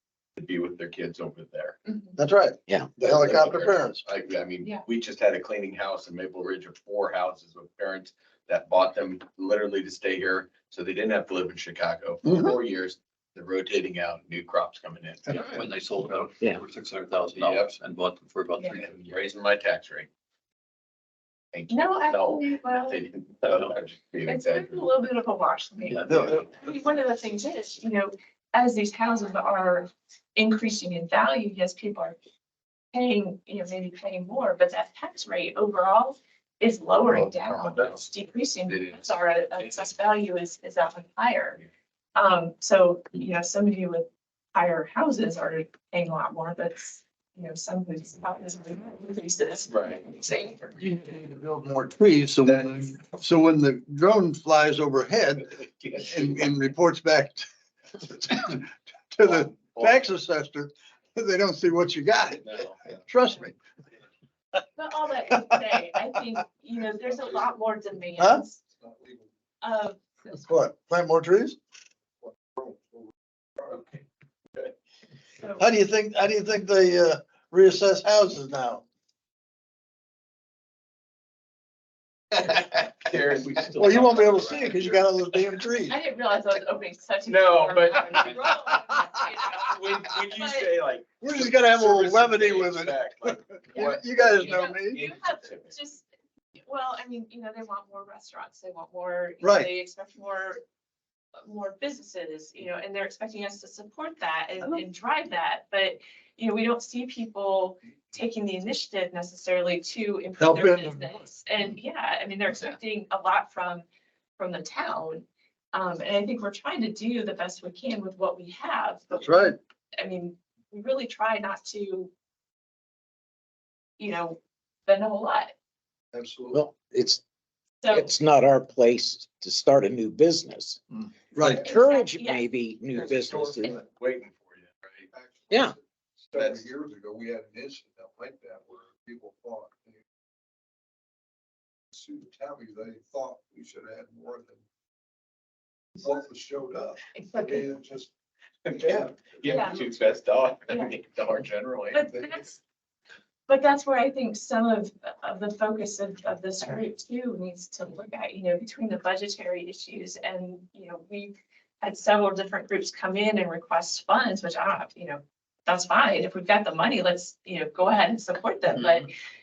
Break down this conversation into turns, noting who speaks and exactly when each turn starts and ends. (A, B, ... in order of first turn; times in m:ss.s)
0:00.4-0:01.8 A
0:01.9-0:02.2 B
0:02.2-0:04.0 C
0:02.7-0:03.1 D
0:03.0-0:15.5 A
0:12.2-0:12.6 C
0:15.3-0:19.2 E
0:17.4-0:17.7 A
0:18.8-0:20.1 A
0:21.5-0:24.9 A
0:21.7-0:23.0 B
0:23.5-0:23.8 E
0:24.2-0:32.2 B
0:25.9-0:26.4 E
0:26.1-0:26.4 C
0:32.9-0:41.6 B
0:37.1-0:38.1 A
0:38.7-0:39.9 A
0:42.2-0:50.8 B
0:49.7-0:50.1 A
0:50.8-0:57.5 C
0:52.4-0:53.0 A
0:55.4-0:56.5 A
0:58.0-1:03.6 C
0:59.2-1:00.1 A
1:02.4-1:03.0 A
1:04.8-1:08.6 B
1:05.3-1:05.6 C
1:08.2-1:08.4 C
1:09.6-1:10.4 B
1:10.4-1:11.6 C
1:13.7-1:14.0 A
1:15.6-1:18.8 C
1:22.3-1:25.0 A
1:23.4-1:24.0 E
1:23.8-1:26.0 C
1:25.9-1:30.7 B
1:27.3-1:28.4 A
1:29.6-1:35.7 A
1:31.2-1:35.0 C
1:33.7-1:36.0 B
1:36.6-1:40.6 B
1:39.4-1:39.7 C
1:41.4-1:53.9 B
1:50.4-1:51.0 C
1:54.4-2:02.1 B
1:59.1-1:59.6 C
2:04.0-2:05.5 B
2:06.1-2:06.6 C
2:06.5-2:07.2 D
2:07.8-2:08.1 B
2:07.9-2:10.8 D
2:11.3-2:11.7 C
2:11.4-2:13.8 D
2:11.6-2:12.5 B
2:13.0-2:13.8 B
2:13.3-2:13.7 C
2:13.9-2:15.1 A
2:15.2-2:15.7 C
2:15.5-2:15.8 D
2:16.3-2:19.9 C
2:16.3-2:16.7 A
2:22.0-2:24.5 C
2:26.0-2:28.0 C
2:27.2-2:27.7 B
2:28.6-2:32.1 A
2:28.8-2:29.7 C
2:29.5-2:29.9 B
2:30.7-2:31.0 B
2:31.9-2:32.6 B
2:33.5-2:49.1 B